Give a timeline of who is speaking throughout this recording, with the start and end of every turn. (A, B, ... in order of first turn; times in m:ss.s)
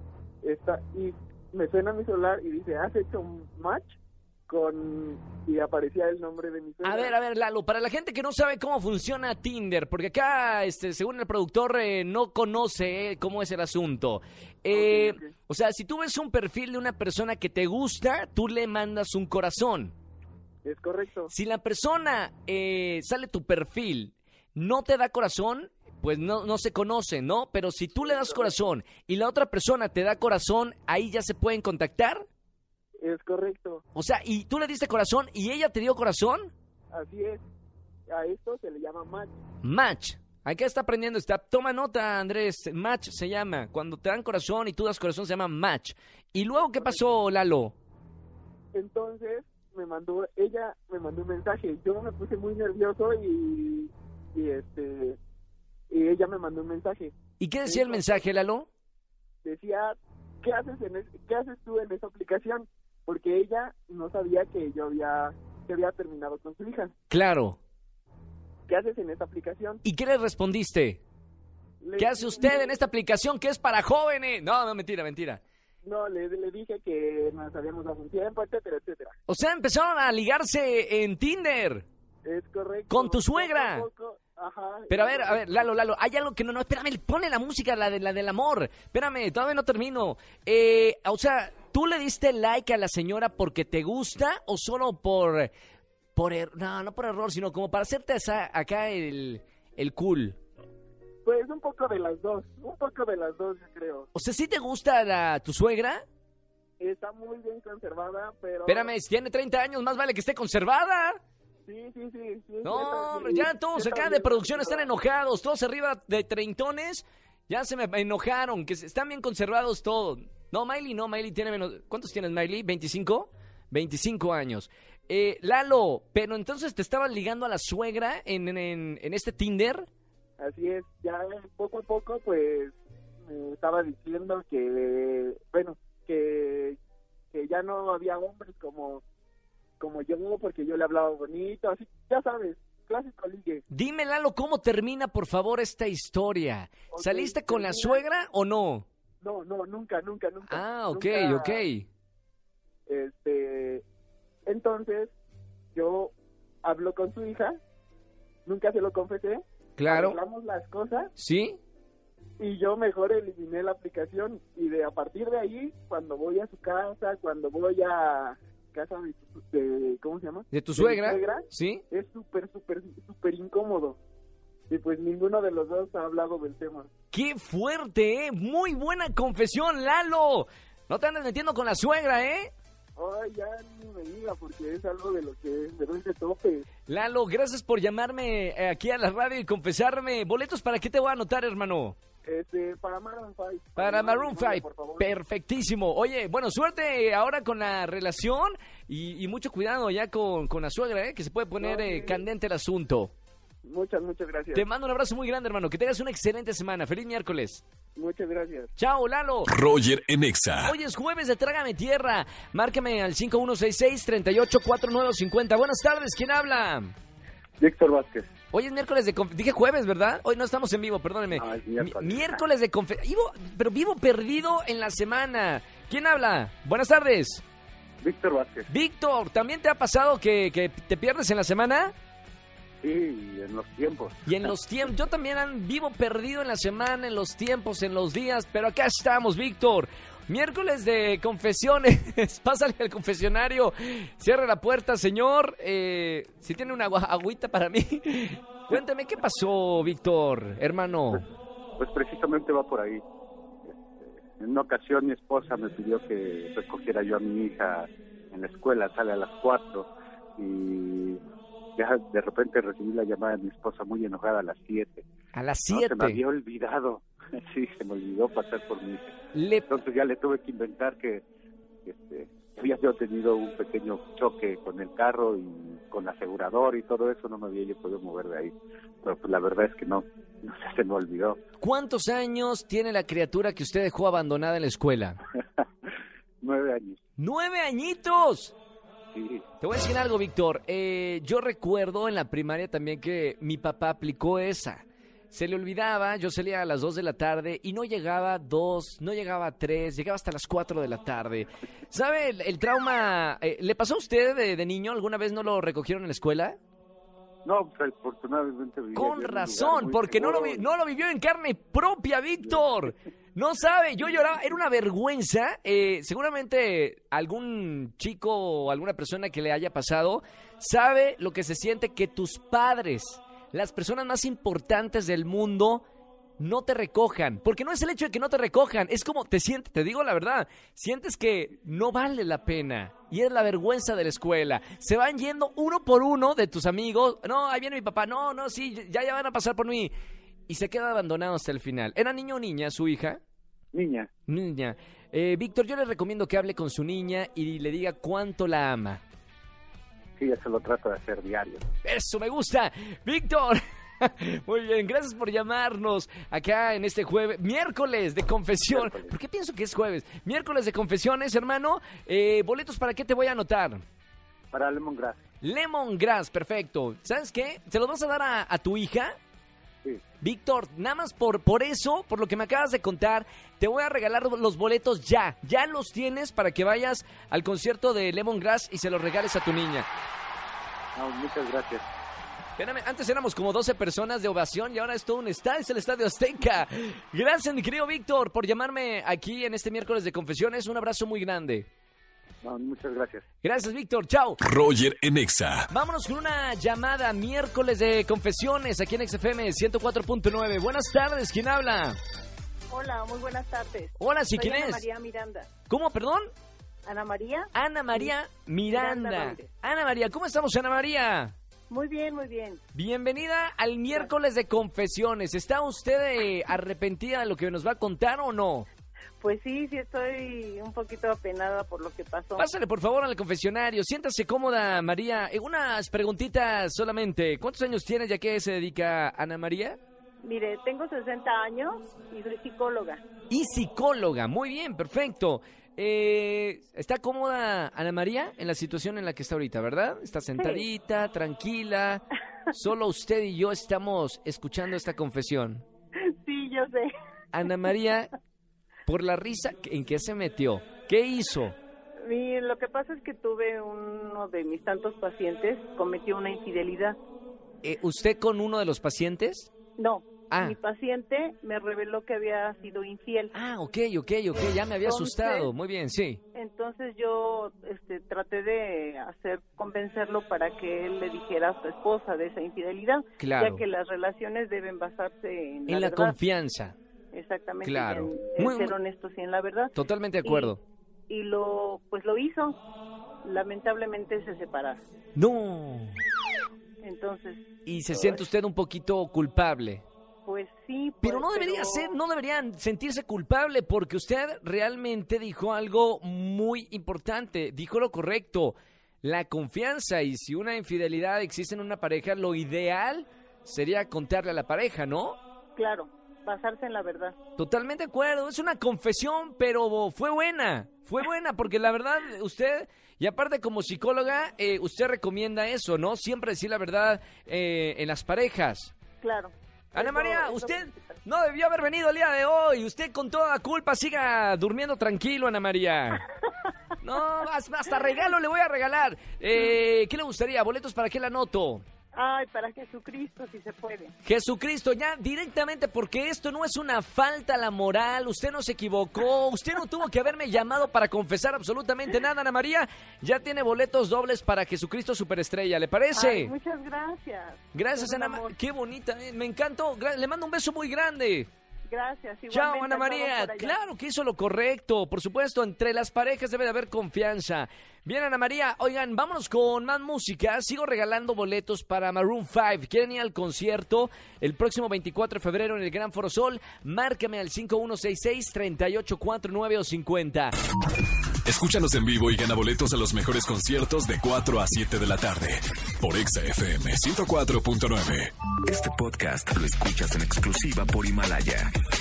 0:00.4-0:04.0 A
0:04.5-0:07.2 A
0:06.8-0:20.0 B
0:14.7-0:15.3 A
0:20.6-0:21.3 A
0:21.3-0:32.3 B
0:28.0-0:28.7 A
0:33.0-0:33.8 A
0:33.9-0:36.5 B
0:36.9-0:37.4 A
0:38.1-0:39.4 A
0:39.6-0:47.8 B
0:46.6-0:47.0 A
0:48.7-0:55.2 A
0:55.9-0:57.1 A
0:57.4-0:58.7 B
0:57.6-0:58.4 A
0:59.4-1:06.9 A
1:07.1-1:07.6 B
1:08.7-1:09.8 A
1:09.8-1:11.0 B
1:11.8-1:12.8 A
1:12.0-1:15.4 B
1:15.8-1:19.2 A
1:19.3-1:21.9 B
1:22.2-1:25.7 A
1:22.9-1:23.9 B
1:24.9-1:35.5 B
1:36.2-1:40.4 B
1:41.2-1:44.1 A
1:44.1-1:46.0 B
1:46.8-1:48.9 A
1:48.7-1:51.2 B
1:51.7-1:54.9 A
1:52.6-2:09.9 B
2:10.4-2:16.8 A
2:17.3-2:19.0 A
2:19.8-2:23.6 A
2:23.7-2:28.8 B
2:26.9-2:28.0 A
2:29.2-2:31.6 A
2:30.5-2:31.9 B
2:32.9-2:33.8 A
2:34.5-2:35.1 A
2:35.8-2:36.1 A
2:36.6-2:37.6 A
2:38.5-2:41.1 A
2:39.8-2:40.2 B
2:41.2-2:41.6 B
2:42.4-2:54.0 A
2:50.5-2:51.8 B
2:54.7-2:56.9 A
2:57.1-3:02.5 B
3:03.0-3:06.7 A
3:06.9-3:12.0 B
3:12.2-3:15.1 A
3:13.8-3:23.1 B
3:21.6-3:22.2 A
3:23.6-3:24.7 A
3:24.5-3:27.6 B
3:28.0-3:28.7 A
3:28.8-3:29.5 B
3:29.5-3:30.8 C
3:30.6-3:36.9 B
3:37.6-3:38.3 D
3:38.5-3:47.4 B
3:41.3-3:42.4 D
3:48.0-3:48.7 D
3:48.7-3:51.9 B
3:52.8-3:54.6 D
3:54.3-4:11.2 B
4:11.8-4:13.0 D
4:13.6-4:21.2 D
4:21.8-4:25.1 D
4:25.3-4:26.2 B
4:25.7-4:29.1 D
4:29.3-4:29.7 B
4:29.7-4:31.2 D
4:31.8-4:41.4 D
4:41.6-4:45.2 B
4:46.4-4:47.0 D
4:47.2-4:48.6 B
4:49.1-4:49.4 D
4:49.6-5:06.6 B
5:07.4-5:10.7 D
5:08.9-5:25.8 B
5:26.4-5:39.9 B
5:40.5-5:43.2 B
5:43.7-5:44.1 D
5:44.3-5:49.0 B
5:50.2-5:51.6 D
5:51.8-6:03.8 B
5:58.7-5:59.1 D
6:04.5-6:05.2 D
6:05.4-6:09.2 B
6:10.2-6:19.9 B
6:21.0-6:21.8 D
6:22.6-6:31.7 B
6:32.4-6:33.2 D
6:33.4-6:34.4 B
6:34.4-6:35.7 C
6:35.7-6:42.0 B
6:42.7-6:45.5 E
6:44.0-6:44.8 B
6:45.7-6:46.3 B
6:46.9-6:48.1 E
6:47.6-6:51.3 B
6:48.7-6:49.5 E
6:51.7-6:52.6 E
6:52.7-6:58.7 B
6:59.2-7:02.5 E
7:02.4-7:09.8 B
7:10.2-7:13.0 E
7:13.3-7:25.6 B
7:20.4-7:20.6 E
7:26.0-7:26.9 E
7:27.3-7:28.1 B
7:28.9-7:31.6 B
7:32.0-7:37.0 E
7:37.6-7:39.5 B
7:39.8-7:43.3 E
7:40.3-7:40.6 B
7:43.3-7:46.2 B
7:44.3-7:45.5 E
7:46.3-7:56.2 E
7:53.2-7:53.6 B
7:55.7-7:56.8 B
7:57.1-7:59.7 E
7:57.6-7:58.8 B
7:59.8-8:00.6 B
8:00.2-8:00.6 E
8:01.1-8:02.6 E
8:03.2-8:04.8 E
8:05.2-8:06.0 B
8:06.8-8:08.2 E
8:07.7-8:09.8 B
8:10.3-8:12.0 E
8:11.0-8:25.2 B
8:25.6-8:27.2 E
8:27.4-8:38.7 B
8:39.0-8:40.9 E
8:39.8-8:46.0 B
8:46.8-8:51.6 B
8:51.9-8:53.9 E
8:54.0-9:06.3 B
9:05.9-9:08.3 E
9:07.5-9:11.3 B
9:11.7-9:13.6 E
9:12.3-9:30.3 B
9:31.3-9:38.1 C
9:38.4-9:41.5 F